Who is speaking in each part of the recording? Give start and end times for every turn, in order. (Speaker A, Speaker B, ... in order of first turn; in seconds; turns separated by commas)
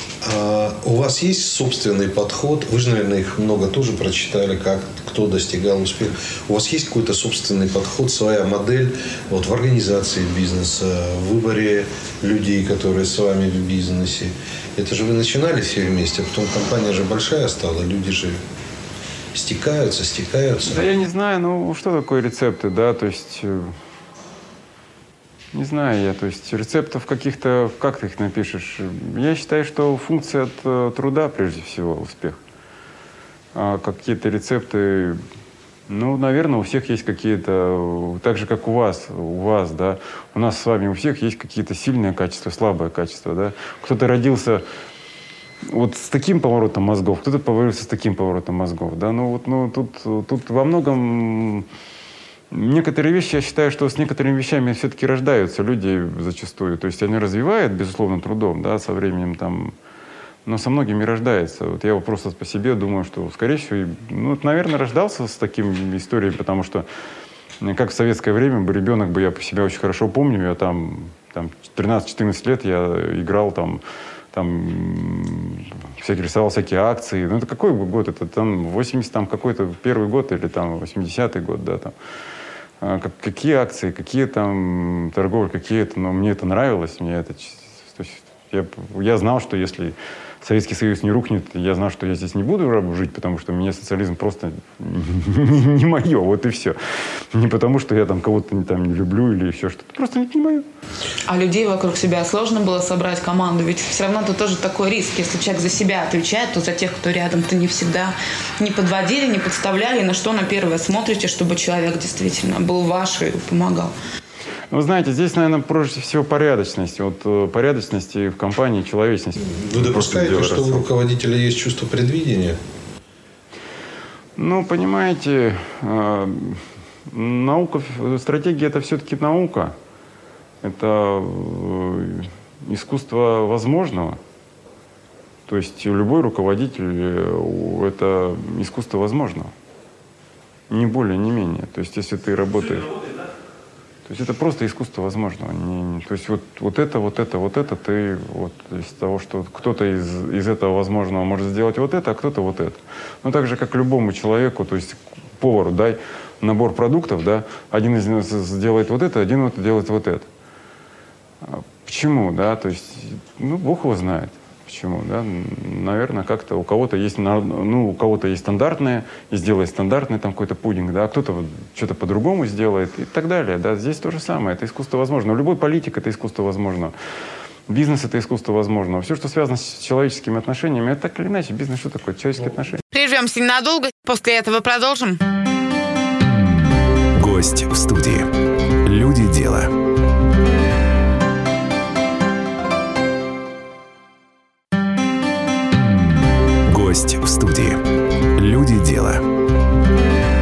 Speaker A: 0.2-18.4, Speaker A: 19.3-20.8, Speaker B: 20.7-23.8, Speaker B: 25.5-32.4, Speaker B: 33.5-35.2, Speaker B: 35.9-44.6, Speaker B: 45.7-51.7, Speaker B: 52.5-59.7, Speaker B: 60.5-66.9, Speaker B: 67.6-73.8, Speaker B: 74.3-81.9, Speaker B: 82.8-96.8, Speaker B: 97.3-100.7, Speaker C: 101.3-113.9, Speaker B: 114.7-120.9, Speaker A: 119.4-122.6, Speaker B: 124.4-129.8, Speaker B: 130.6-134.2, Speaker B: 135.5-139.5, Speaker B: 140.7-142.9, Speaker B: 144.1-160.3, Speaker B: 161.4-176.9, Speaker B: 177.7-182.8, Speaker C: 182.9-185.2, Speaker D: 187.1-188.3, Speaker D: 188.8-189.7, Speaker D: 196.7-197.8, Speaker D: 198.4-199.2